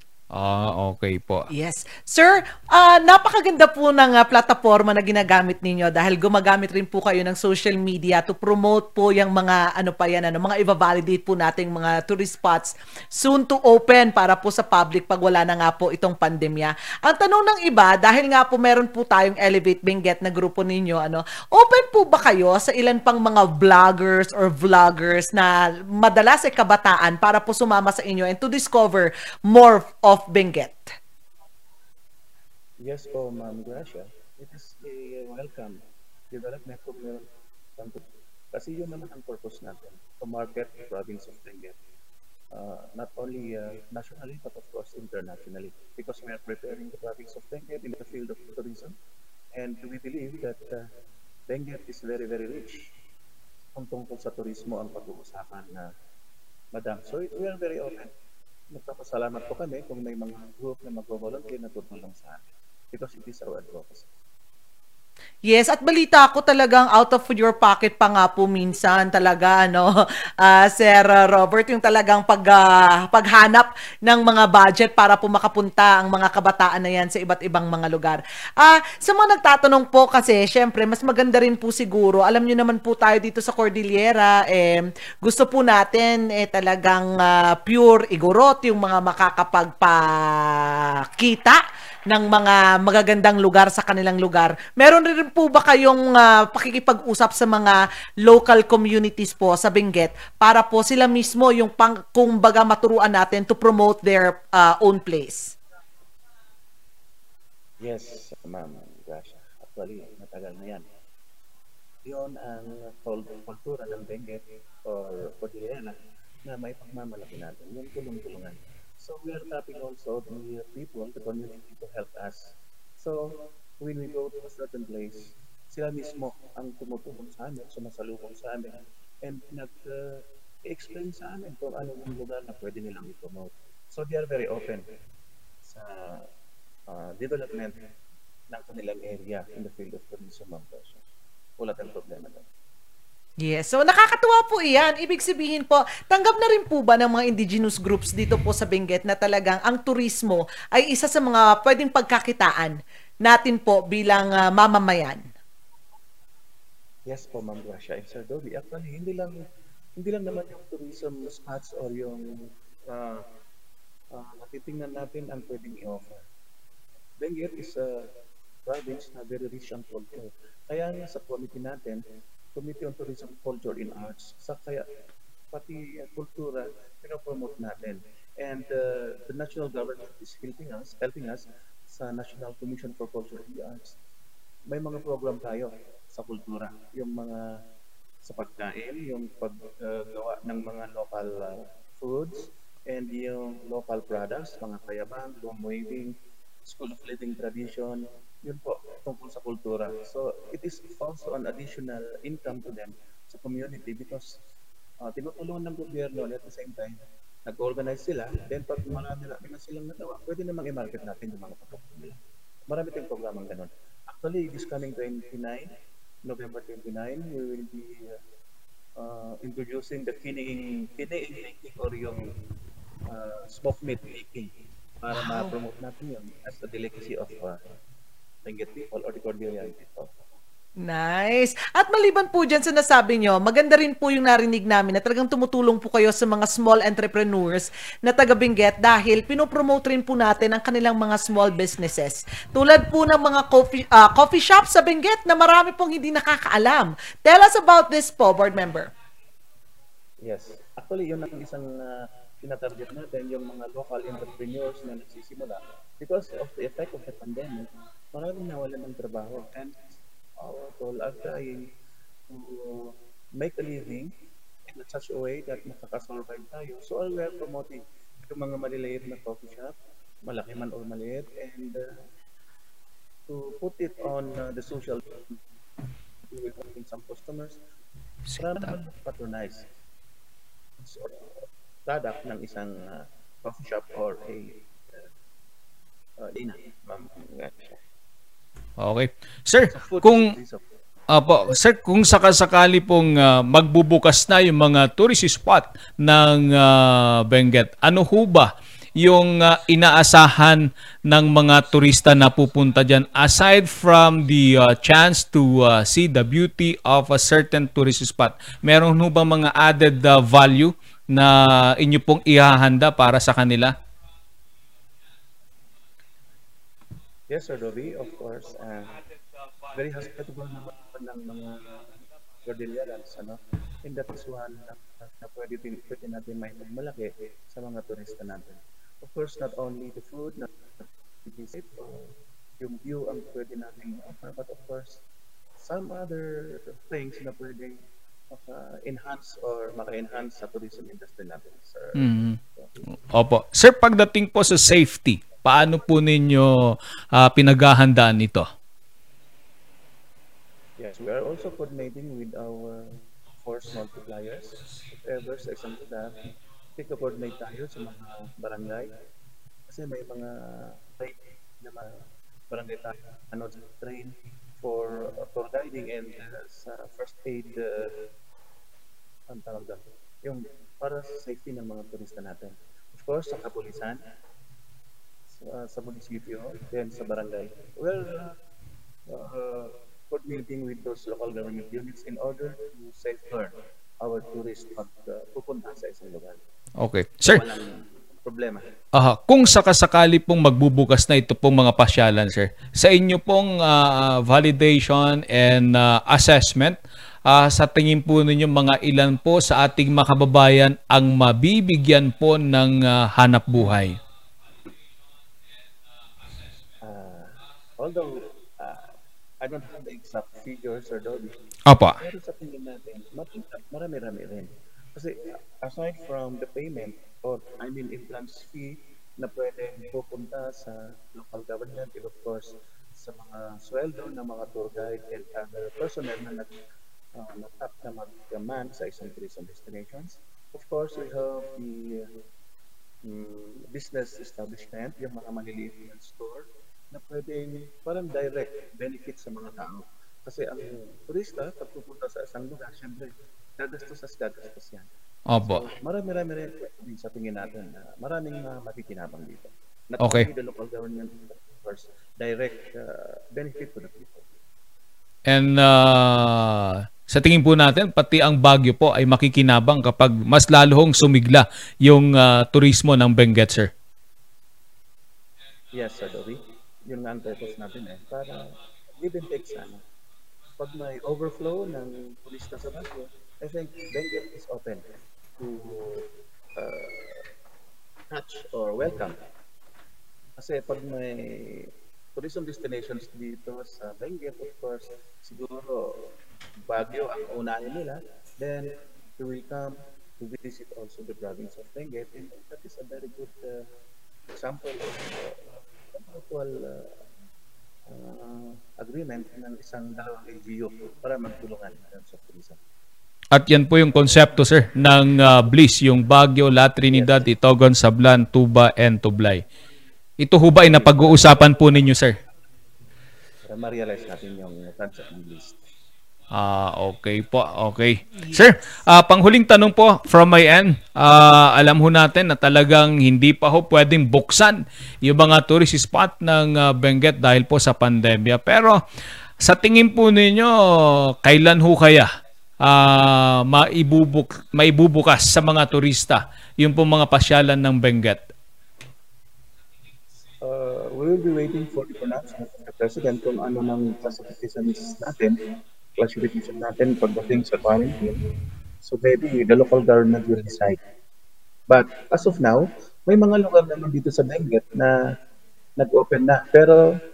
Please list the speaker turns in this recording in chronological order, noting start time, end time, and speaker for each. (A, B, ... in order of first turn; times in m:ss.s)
0:00.4-0:01.5 A
0:01.5-0:30.9 B
0:32.8-0:35.8 C
0:36.3-0:37.2 C
0:37.8-0:41.7 C
0:42.5-0:48.9 C
0:49.6-0:50.9 C
0:51.5-0:52.9 C
0:53.8-0:55.9 C
0:56.7-0:58.1 C
0:58.7-1:04.1 C
1:05.5-1:31.6 B
1:32.1-1:45.5 B
1:47.8-1:50.9 C
1:52.0-2:14.8 C
2:15.6-2:16.2 C
2:16.9-2:17.8 C
2:18.5-2:21.0 C
2:21.6-2:22.4 C
2:23.4-2:35.3 B
2:37.1-2:39.4 C
2:40.0-2:42.2 C
2:42.9-2:43.2 C
2:44.1-2:46.2 C
2:47.2-2:48.0 C
2:48.6-2:52.0 C
2:52.5-2:54.8 C
2:55.5-3:04.0 C
3:04.7-3:07.4 C
3:08.2-3:24.4 C
3:25.0-3:32.2 C
3:32.7-3:35.7 C
3:36.2-3:38.1 C
3:39.0-3:42.3 C
3:43.1-3:44.5 C
3:45.0-3:47.6 C
3:45.1-3:45.5 B
3:48.4-3:50.2 C
3:50.8-4:08.9 B
4:10.2-4:19.8 C
4:20.4-4:21.6 C
4:22.3-4:24.1 C
4:24.7-4:29.7 C
4:30.3-4:31.8 C
4:33.3-4:35.2 C
4:36.3-4:37.6 C
4:38.3-4:38.7 A
4:38.4-4:39.6 C
4:40.8-4:45.1 C
4:46.2-4:47.8 C
4:48.8-4:50.3 A
4:49.7-4:50.6 C
4:51.1-4:58.5 A
4:59.0-5:13.7 A
5:17.3-5:19.0 C
5:19.7-5:21.7 C
5:22.4-5:30.5 C
5:31.2-5:35.0 C
5:35.6-5:37.8 C
5:38.3-5:42.7 C
5:42.0-5:42.4 A
5:43.1-5:46.6 A
5:47.2-5:48.4 A
5:50.8-5:56.2 C
5:56.8-5:58.9 C
5:59.7-6:01.9 C
6:02.5-6:07.9 C
6:09.3-6:14.0 C
6:15.3-6:18.3 C
6:19.1-6:26.4 C
6:26.8-6:27.4 A
6:27.3-6:28.6 C
6:29.0-6:44.0 A
6:46.8-6:48.9 C
6:49.4-6:51.3 C
6:51.7-6:52.0 A
6:52.0-7:06.5 C
7:07.2-7:12.1 C
7:13.0-7:34.2 C
7:25.3-7:25.6 A
7:30.0-7:30.3 A
7:35.3-7:43.7 A
7:45.7-7:49.8 C
7:50.6-7:54.8 C
7:55.4-7:56.0 C
7:56.6-7:57.2 C
7:58.1-7:59.2 C
8:00.4-8:06.0 C
8:06.7-8:13.6 C
8:14.4-8:16.9 C
8:17.9-8:22.6 C
8:23.3-8:29.4 A
8:26.9-8:27.2 C
8:30.2-8:32.1 A
8:30.6-8:31.7 C
8:33.5-8:35.6 C
8:36.3-8:48.8 A
8:49.4-8:52.1 A
8:52.6-8:58.2 A
9:00.4-9:05.3 C
9:06.0-9:08.2 C
9:08.8-9:10.8 C
9:11.7-9:15.0 C
9:15.8-9:16.8 C